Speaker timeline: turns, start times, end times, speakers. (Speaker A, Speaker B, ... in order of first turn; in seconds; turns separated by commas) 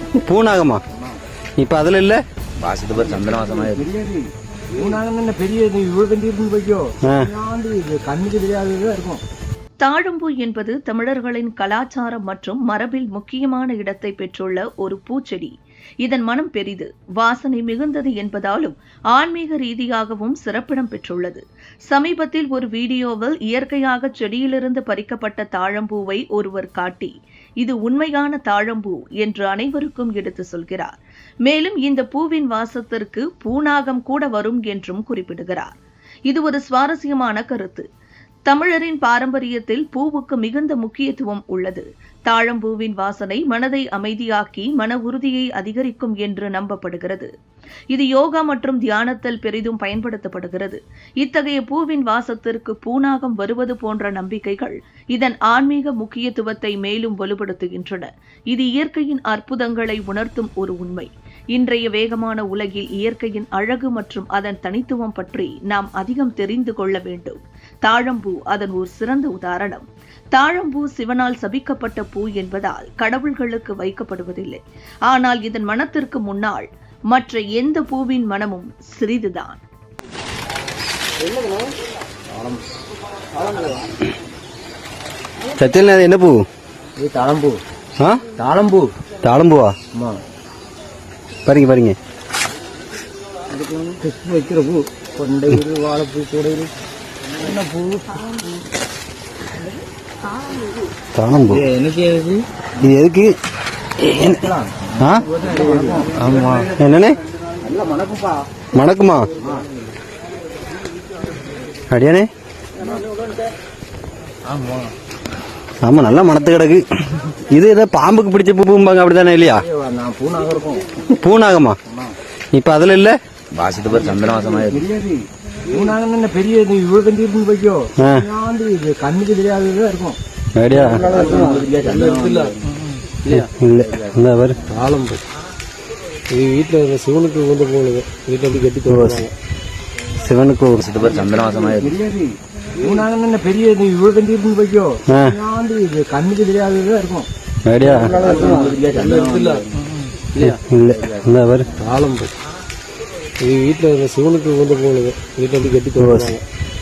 Speaker A: 0.3-0.8, Speaker A: 1.6-2.2, Speaker B: 2.6-3.9, Speaker C: 3.7-9.2, Speaker D: 9.8-30.9, Speaker D: 31.4-35.7, Speaker D: 36.3-37.9, Speaker D: 38.5-47.3, Speaker D: 47.9-79.6, Speaker C: 82.3-82.6, Speaker A: 85.5-86.4, Speaker C: 87.0-87.6, Speaker C: 88.3-88.9, Speaker A: 89.2-89.7, Speaker A: 91.5-92.0, Speaker C: 93.5-96.7, Speaker C: 97.4-98.5, Speaker A: 101.1-101.7, Speaker C: 101.5-102.4, Speaker A: 102.8-103.3, Speaker A: 104.0-104.4, Speaker C: 104.2-106.7, Speaker A: 105.0-105.2, Speaker B: 106.2-106.7, Speaker A: 106.2-107.2, Speaker C: 107.6-108.4, Speaker A: 108.7-109.3, Speaker C: 109.4-109.7, Speaker A: 111.9-112.3, Speaker A: 115.8-119.6, Speaker C: 119.5-121.0, Speaker A: 121.2-121.8, Speaker C: 121.8-122.1, Speaker A: 122.5-123.2, Speaker B: 123.5-124.8, Speaker C: 124.7-130.2, Speaker A: 128.0-128.2, Speaker A: 130.6-131.2, Speaker B: 131.0-132.5, Speaker C: 131.1-132.5, Speaker E: 131.8-132.5, Speaker A: 133.2-134.6, Speaker E: 134.7-135.2, Speaker E: 136.3-139.3, Speaker A: 138.9-139.2, Speaker A: 140.2-140.8, Speaker B: 140.8-142.0, Speaker C: 141.8-147.3, Speaker A: 147.7-148.3, Speaker B: 148.0-149.6, Speaker C: 148.1-148.8, Speaker E: 148.8-150.6, Speaker A: 150.3-151.7, Speaker E: 151.8-152.3, Speaker E: 153.4-156.4, Speaker A: 156.0-156.3